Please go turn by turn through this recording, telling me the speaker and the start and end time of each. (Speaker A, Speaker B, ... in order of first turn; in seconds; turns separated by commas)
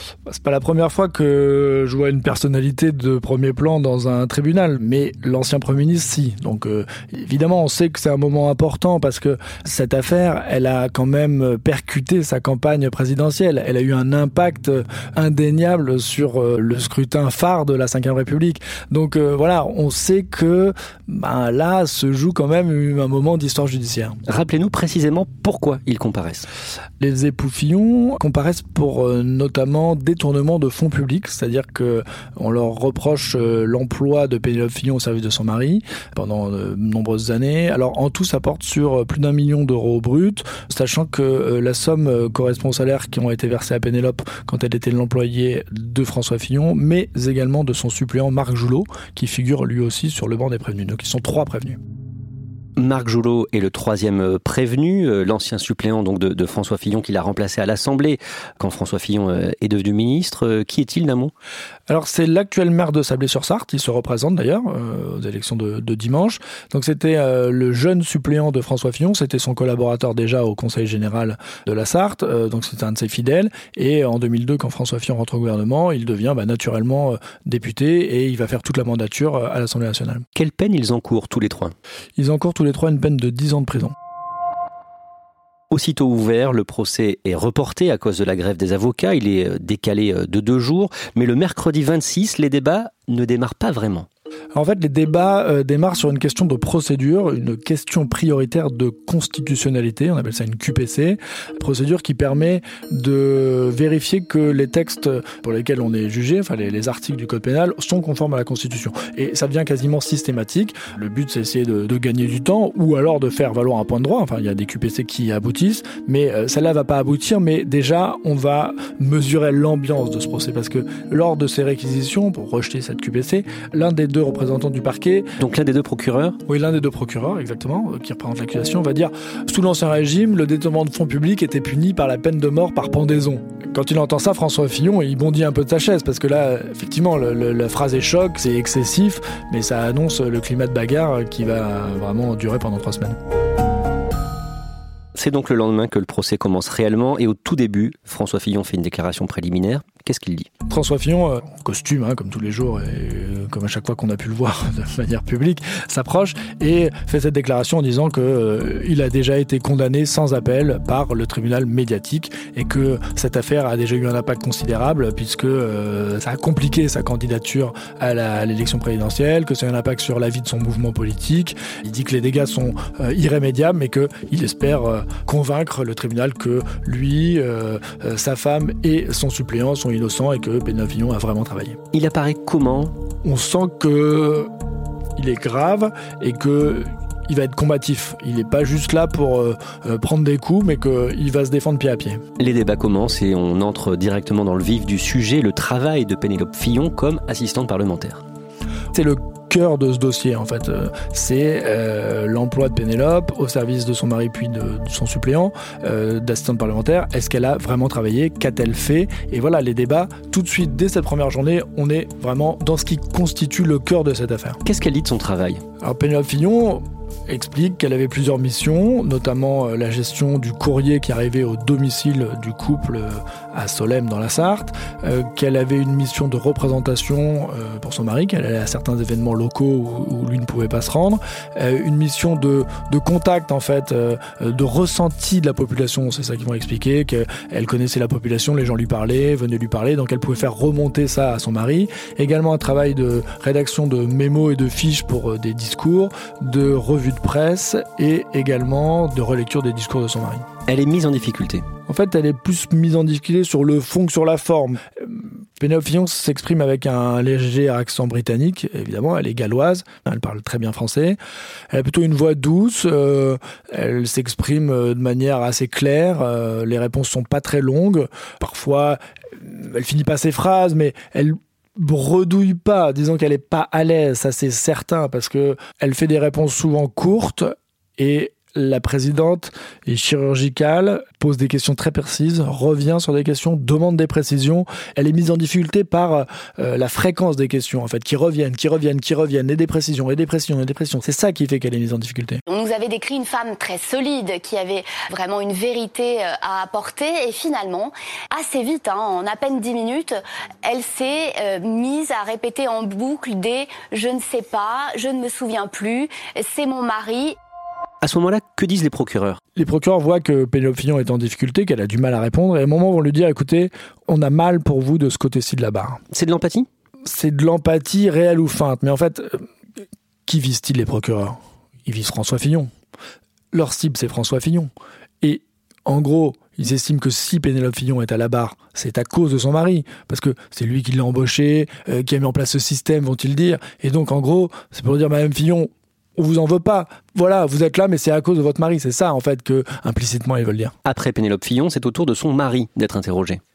Speaker A: 0.3-24.2, Speaker B: 24.3-26.5, Speaker A: 27.0-51.8, Speaker B: 52.8-61.3, Speaker A: 61.9-80.3, Speaker B: 80.3-81.8, Speaker A: 82.2-84.0, Speaker B: 85.7-94.1, Speaker A: 94.5-125.3, Speaker B: 125.4-126.4, Speaker A: 126.5-143.2, Speaker B: 145.2-150.5, Speaker A: 150.7-181.8, Speaker B: 181.9-183.0, Speaker A: 183.2-184.5, Speaker A: 185.2-192.2, Speaker B: 192.4-198.2, Speaker A: 198.9-214.6, Speaker B: 214.6-215.6, Speaker A: 215.8-250.5, Speaker B: 250.7-251.7, Speaker A: 251.9-261.2, Speaker A: 261.7-292.4, Speaker C: 292.5-307.4, Speaker B: 308.0-309.4, Speaker A: 309.6-316.0, Speaker B: 316.1-316.7, Speaker A: 317.1-319.4, Speaker A: 320.3-322.7, Speaker A: 323.5-324.7, Speaker A: 325.2-340.8, Speaker B: 340.9-343.4